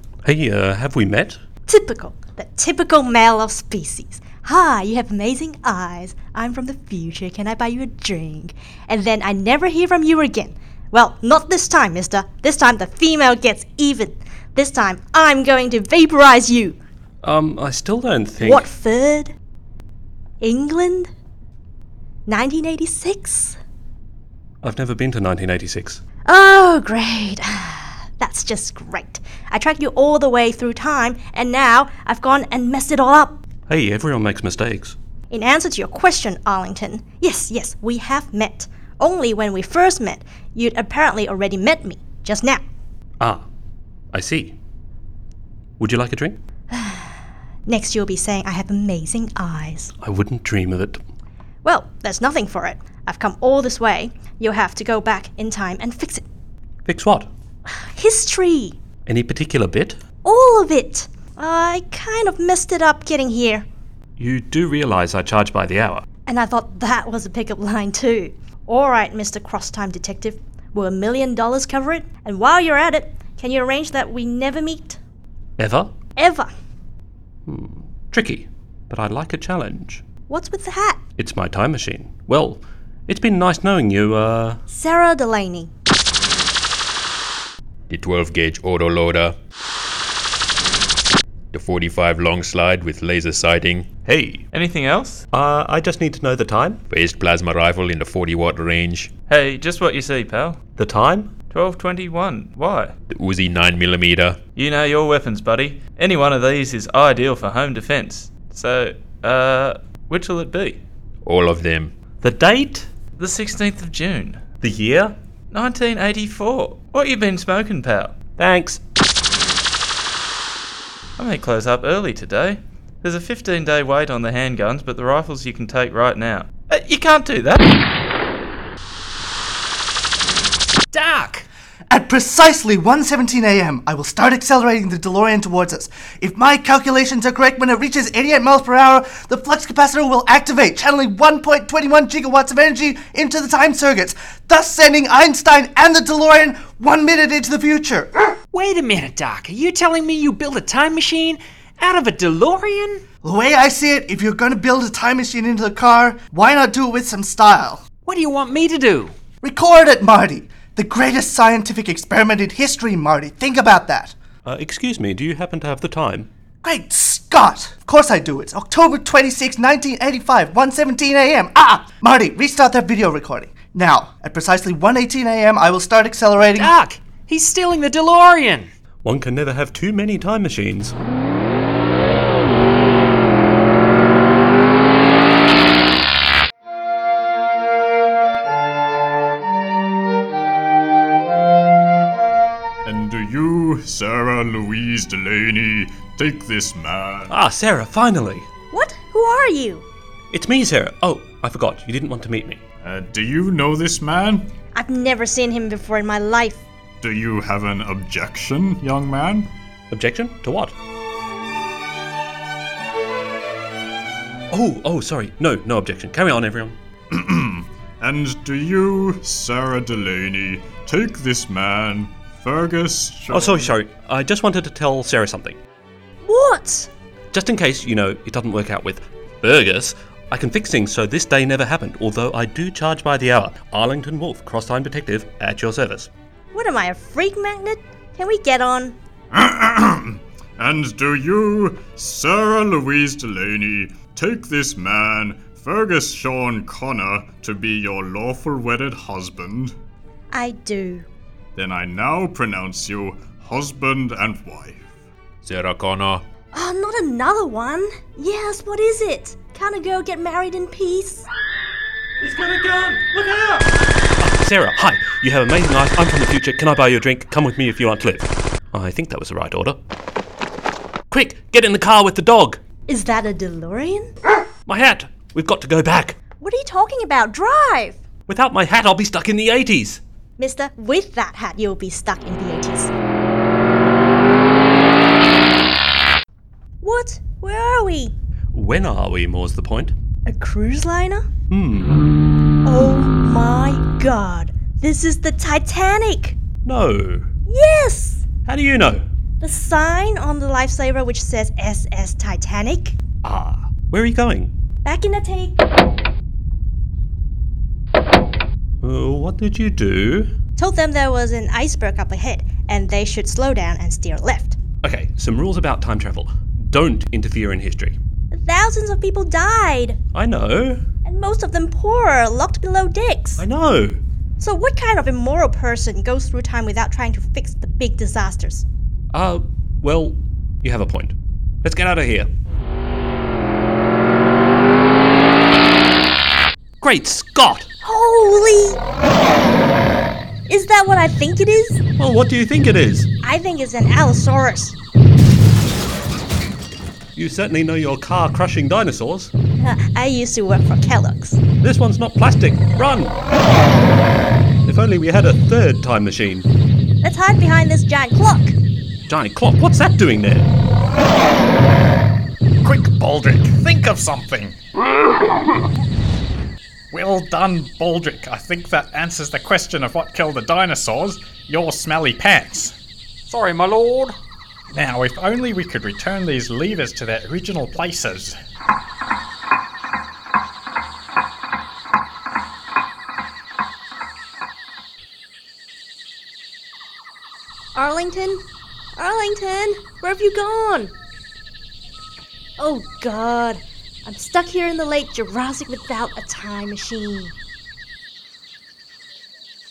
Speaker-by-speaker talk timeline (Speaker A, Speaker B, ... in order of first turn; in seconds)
Speaker A: 0.2-1.4, 17.2-18.6, 24.6-26.0, 33.7-35.0, 44.1-44.5, 45.8-46.4, 50.0-51.0, 56.9-57.3, 59.0-60.0, 64.2-66.0, 75.6-75.9, 77.5-80.0, 81.2-84.6, 94.0-94.4, 95.3-96.8, 100.8-101.3, 112.2-112.9, 114.6-115.1, 118.4-118.8, 164.4-166.3, 179.0-180.9, 197.3-198.5, 200.3-202.6, 209.9-210.7, 214.5-216.8, 223.3-225.6, 227.3-236.1, 262.2-263.7, 264.2-269.8, 271.1-272.6, 274.6-276.2, 278.3-280.0, 288.5-289.9, 291.5-292.0, 296.6-297.3, 298.4-299.0, 303.2-304.5, 308.8-310.3, 314.8-318.0, 320.1-320.8, 323.4-324.0, 329.1-332.3, 336.8-337.7, 342.0-343.1, 347.1-349.3, 351.6-353.1, 354.6-356.5, 359.1-360.5
Speaker B: 1.6-16.8, 18.4-19.3, 20.4-21.1, 22.3-23.6, 26.2-33.4, 35.3-42.6, 46.7-47.1, 47.6-49.9, 51.6-56.2, 57.7-58.8, 60.2-63.6, 66.2-75.0, 76.2-76.5, 80.3-81.0, 84.7-85.7, 198.7-199.8, 204.7-206.6, 226.2-226.9, 236.5-238.9, 250.3-251.1, 256.5-261.3, 272.9-274.1, 276.4-278.0, 280.4-282.9, 286.8-288.1, 290.2-291.2, 292.6-296.4, 297.5-298.2, 299.4-302.9, 304.8-305.6, 310.6-314.6, 318.3-320.0, 321.0-323.4, 324.4-328.6, 337.8-338.8, 340.5-341.8, 343.2-344.8, 349.6-351.4, 357.0-358.5, 387.7-388.4, 388.9-390.9, 392.6-397.3
Speaker C: 87.9-89.3, 91.5-93.9, 96.9-99.1, 103.1-104.4, 111.2-111.9, 255.4-256.2
Speaker D: 94.5-95.2, 99.3-100.6, 101.5-102.9, 104.5-110.8, 113.2-114.4, 115.5-118.2, 121.2-127.7
Speaker E: 130.9-131.4, 148.5-153.0, 158.1-159.1, 176.4-178.7, 373.3-374.1
Speaker F: 131.9-148.3, 153.2-157.8, 159.4-164.1, 166.6-176.7
Speaker G: 192.8-197.3, 202.8-204.5, 207.0-209.5, 217.1-223.7, 239.3-249.7, 251.6-254.9
Speaker H: 362.6-364.6, 366.9-372.7, 374.7-378.4